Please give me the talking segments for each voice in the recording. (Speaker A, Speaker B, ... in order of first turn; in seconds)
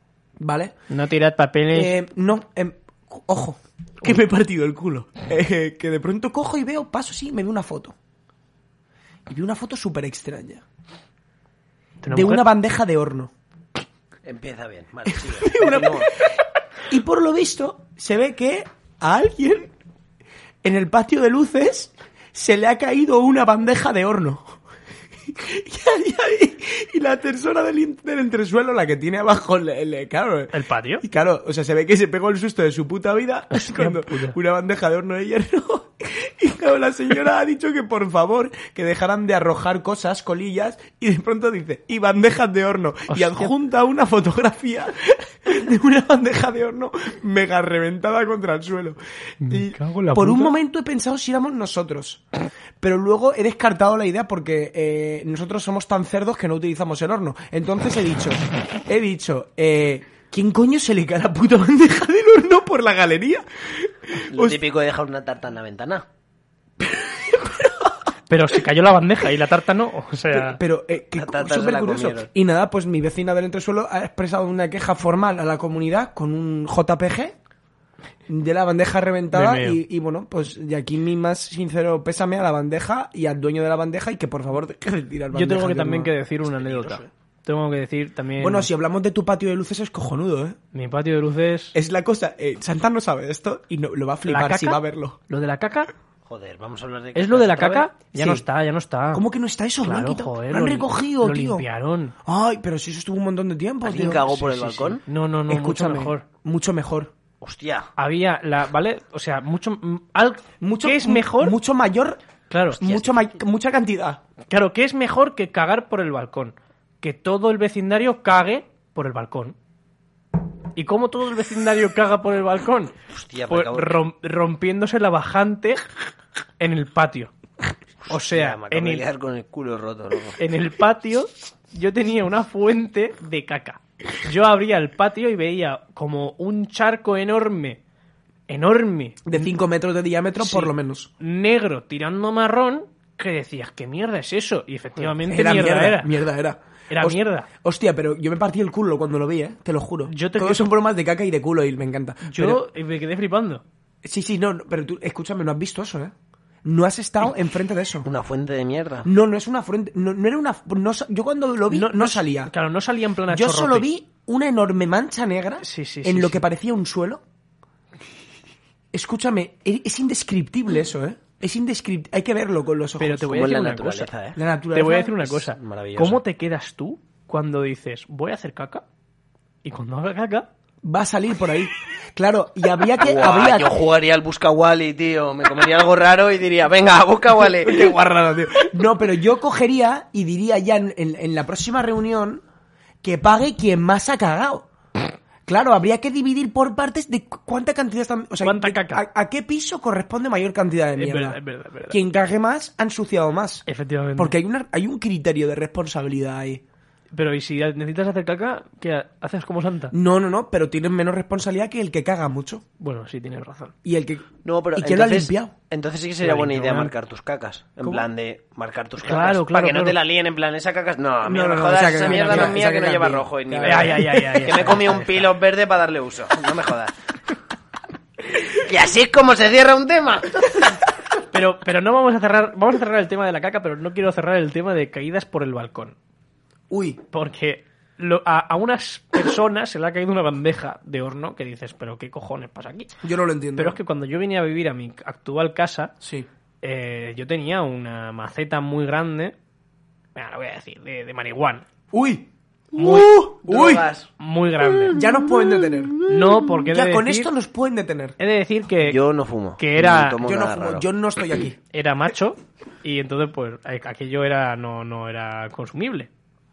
Speaker A: 0.4-0.7, 1.7-7.9, 9.3-10.6, 12.1-13.3, 15.1-19.7, 20.6-24.6, 25.3-52.2, 52.8-64.6, 66.8-68.0, 70.3-77.3, 78.3-86.1, 88.4-90.6, 91.7-95.2, 98.1-98.4, 99.1-101.6, 102.2-105.0, 105.5-107.1, 110.6-112.2, 112.7-114.2, 139.2-141.1, 145.2-152.6, 154.0-156.1, 156.6-158.1, 159.0-162.5, 163.3-167.2, 168.9-173.3, 174.3-175.4, 180.8-183.7, 187.6-192.4, 193.0-194.7, 195.5-203.6, 204.2-206.6, 209.9-212.6, 213.8-215.5, 221.2-224.7, 236.7-237.0, 243.0-243.8, 246.0-246.2, 251.9-253.9, 254.9-256.0, 256.7-258.1, 260.2-261.6
Speaker B: 0.9-1.9, 12.0-12.4, 30.5-31.0, 33.5-34.3, 43.1-43.5, 49.4-50.5, 68.3-70.6, 79.3-79.8, 85.3-88.7, 90.7-91.7, 94.2-95.9, 97.1-99.2, 99.8-102.1, 105.0-106.2, 108.0-111.5, 112.5-112.8, 114.5-119.5, 120.7-122.9, 123.5-125.8, 126.6-127.3, 128.1-129.0, 130.4-137.8, 138.5-139.5, 140.4-146.1, 146.9-147.5, 150.1-150.7, 152.3-153.6, 161.7-163.9, 165.6-166.4, 173.0-174.1, 174.7-178.8, 179.6-180.5, 198.4-199.0, 201.0-202.0, 203.7-204.3, 207.1-209.9, 212.8-213.7, 216.2-216.9, 219.0-220.0, 222.0-222.6, 223.6-225.3, 231.3-235.9, 237.1-242.9, 243.6-245.9, 246.6-249.3, 250.1-251.6, 252.8-253.2, 254.2-255.1, 256.0-257.3, 258.2-259.0, 259.6-260.2, 261.7-266.1
Speaker C: 14.2-16.1, 64.2-66.0, 71.2-72.3, 86.4-87.1, 96.2-97.9, 103.8-105.0, 107.4-107.9, 112.8-113.3, 123.1-124.0, 128.0-130.4, 158.0-159.1, 173.2-174.4, 175.5-176.2, 182.9-188.0, 214.4-226.9, 228.5-230.8, 253.4-254.1, 258.8-260.9